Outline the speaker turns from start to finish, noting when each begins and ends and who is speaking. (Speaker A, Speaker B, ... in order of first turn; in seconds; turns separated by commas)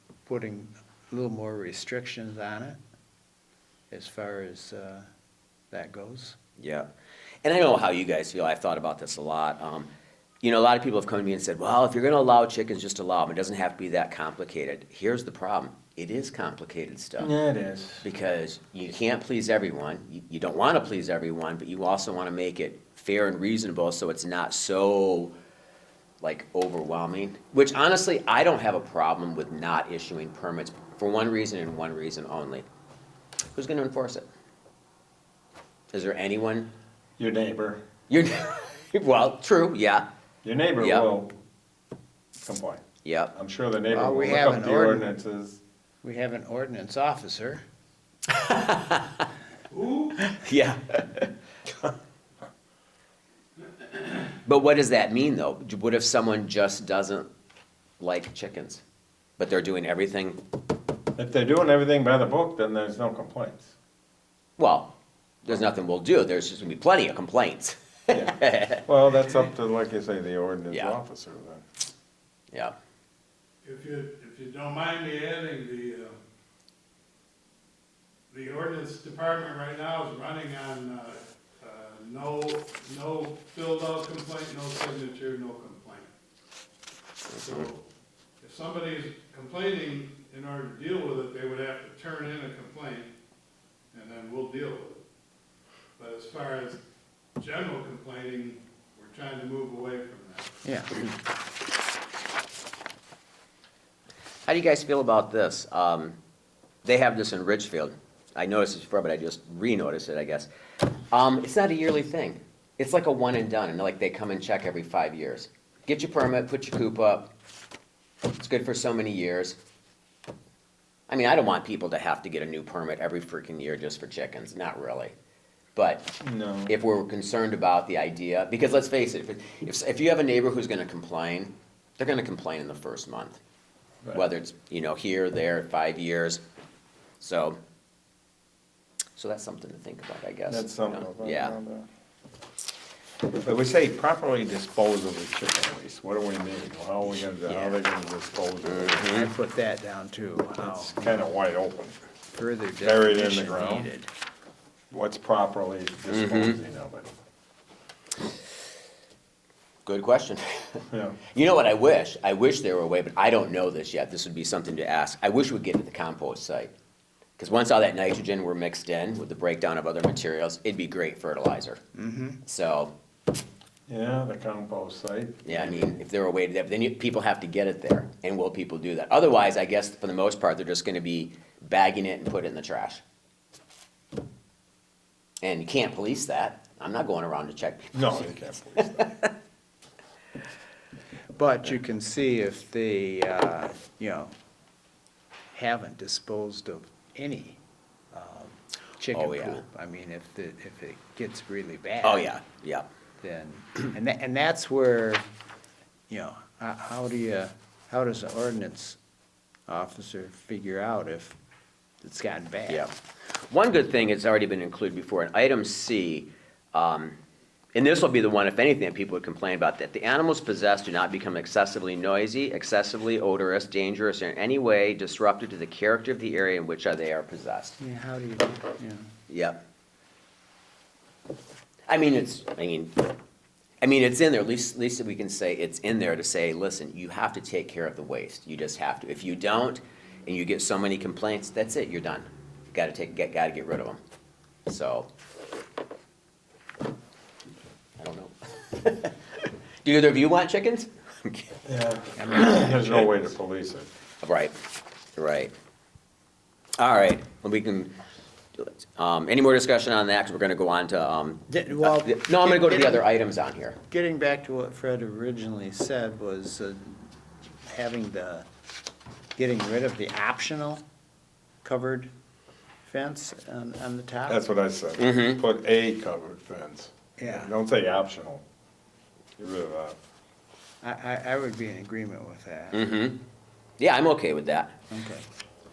Speaker A: 0.2-2.8, Speaker A: 3.9-5.1, Speaker A: 5.7-6.4, Speaker B: 6.6-6.9, Speaker B: 7.4-9.9, Speaker B: 10.4-17.3, Speaker C: 17.2-18.1, Speaker B: 18.0-25.3, Speaker B: 26.2-32.6, Speaker B: 33.5-34.3, Speaker B: 35.9-36.7, Speaker C: 37.2-37.8, Speaker B: 38.1-40.1, Speaker C: 40.4-41.3, Speaker B: 40.8-41.1, Speaker C: 42.4-42.8, Speaker B: 43.0-43.3, Speaker C: 43.3-45.6, Speaker A: 43.9-45.1, Speaker A: 46.0-47.6, Speaker B: 48.3-49.3, Speaker D: 49.7-50.2, Speaker B: 50.2-51.3, Speaker D: 53.7-54.2, Speaker B: 54.5-57.3, Speaker B: 58.0-58.8, Speaker B: 59.4-60.4, Speaker C: 61.1-63.7, Speaker B: 64.6-68.8, Speaker C: 68.1-71.6, Speaker B: 70.7-71.0, Speaker D: 73.6-76.2, Speaker D: 78.3-86.1, Speaker B: 87.3-87.7, Speaker D: 87.4-87.8, Speaker D: 88.4-93.1, Speaker D: 93.9-95.0, Speaker D: 96.0-96.8, Speaker D: 97.4-100.6, Speaker A: 100.6-100.9, Speaker B: 104.5-106.2, Speaker B: 106.8-110.5, Speaker B: 111.1-117.3, Speaker B: 118.4-119.6, Speaker B: 121.1-125.1, Speaker B: 125.8-126.1, Speaker C: 126.2-126.7, Speaker B: 126.7-133.4, Speaker B: 134.1-136.4, Speaker B: 137.2-137.6, Speaker B: 139.2-141.6, Speaker C: 140.5-141.9, Speaker C: 143.3-149.1, Speaker B: 147.4-147.8, Speaker B: 148.6-149.3, Speaker A: 149.0-151.2, Speaker C: 150.6-152.0, Speaker A: 152.3-154.1, Speaker C: 152.8-153.9, Speaker C: 154.9-157.1, Speaker B: 156.1-156.6, Speaker B: 159.8-166.7, Speaker C: 160.9-161.2, Speaker B: 167.4-171.8, Speaker A: 171.9-172.4, Speaker B: 172.4-172.9, Speaker C: 173.9-176.0, Speaker B: 175.4-183.0, Speaker B: 185.4-188.3, Speaker C: 187.9-189.1, Speaker B: 188.9-189.3, Speaker A: 191.3-194.3, Speaker A: 195.5-197.6, Speaker A: 198.1-202.3, Speaker B: 199.1-199.6, Speaker B: 202.0-202.9, Speaker A: 203.2-205.2, Speaker A: 206.1-209.0, Speaker A: 209.7-211.4, Speaker A: 212.0-212.9, Speaker B: 213.5-217.2, Speaker B: 217.7-227.8, Speaker A: 227.8-229.1, Speaker B: 229.3-229.6, Speaker B: 231.9-233.2, Speaker B: 233.8-244.0, Speaker B: 244.7-245.1, Speaker B: 248.0-251.6, Speaker C: 251.7-253.9, Speaker A: 252.2-252.8, Speaker B: 252.2-253.1, Speaker B: 254.2-254.6, Speaker B: 255.1-255.5, Speaker B: 256.8-257.9, Speaker B: 258.5-263.8, Speaker A: 261.5-263.0, Speaker A: 263.9-267.1, Speaker A: 267.6-268.4, Speaker A: 269.4-270.8, Speaker A: 271.6-272.1, Speaker A: 272.8-274.4, Speaker C: 274.3-278.4, Speaker B: 275.0-275.4, Speaker A: 277.2-277.5, Speaker C: 279.4-280.0, Speaker A: 280.8-282.9, Speaker B: 282.7-283.2, Speaker B: 283.8-284.7, Speaker A: 284.9-285.2